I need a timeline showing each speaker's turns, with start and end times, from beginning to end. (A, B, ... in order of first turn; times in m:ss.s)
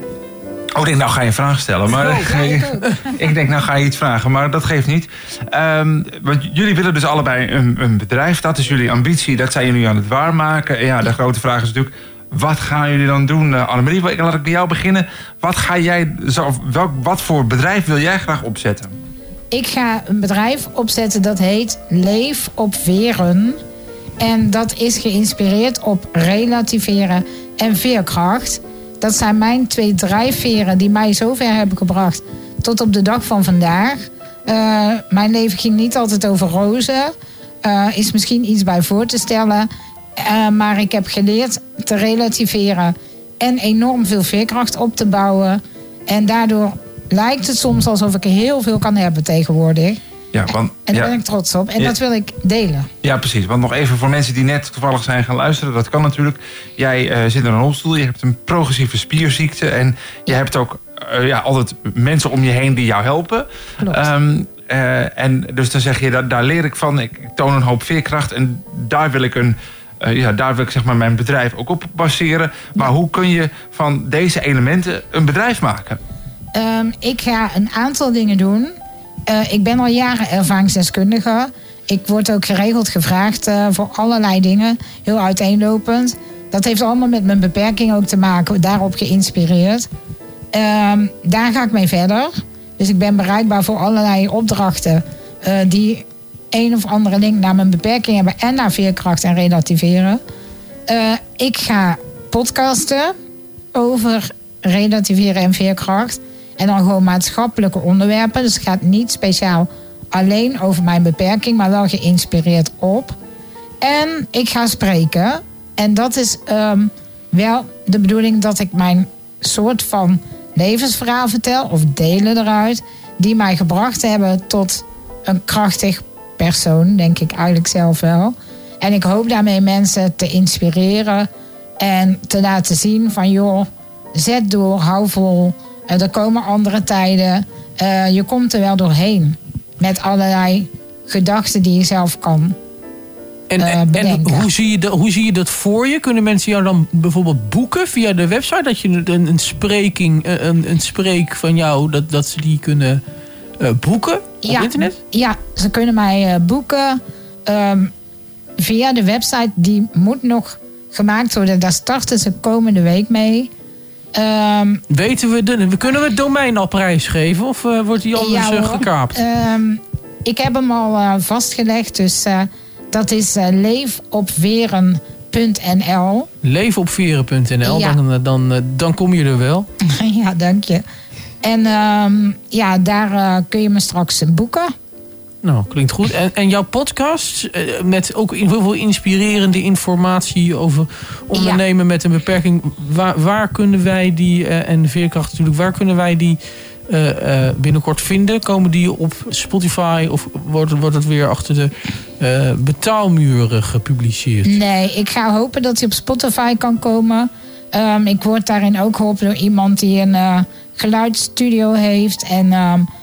0:00.8-0:18.9 A
0:01.9-0:02.4 B
0:02.1-0:03.0 C
0:19.5-0:23.6 C
0:24.2-0:52.9 C
0:50.3-0:51.1 A
0:53.0-1:16.0 A
1:03.8-1:04.1 C
1:16.5-1:18.7 C
1:19.3-1:29.9 C
1:30.5-1:40.2 C
1:40.9-1:43.2 C
1:43.7-1:53.2 C
1:53.8-2:11.3 C
2:11.8-2:22.6 C
2:23.5-2:33.0 B
2:23.6-2:24.5 C
2:33.6-2:35.0 B
2:34.4-2:37.9 C
2:38.6-2:43.5 C
2:44.1-2:44.8 C
2:44.9-2:49.1 B
2:48.2-2:56.3 C
2:56.4-2:59.7 B
2:57.6-2:58.0 C
3:00.0-3:00.8 C
3:01.4-3:04.7 C
3:05.4-3:16.4 B
3:11.3-3:11.6 C
3:16.9-3:24.5 B
3:24.4-3:32.9 C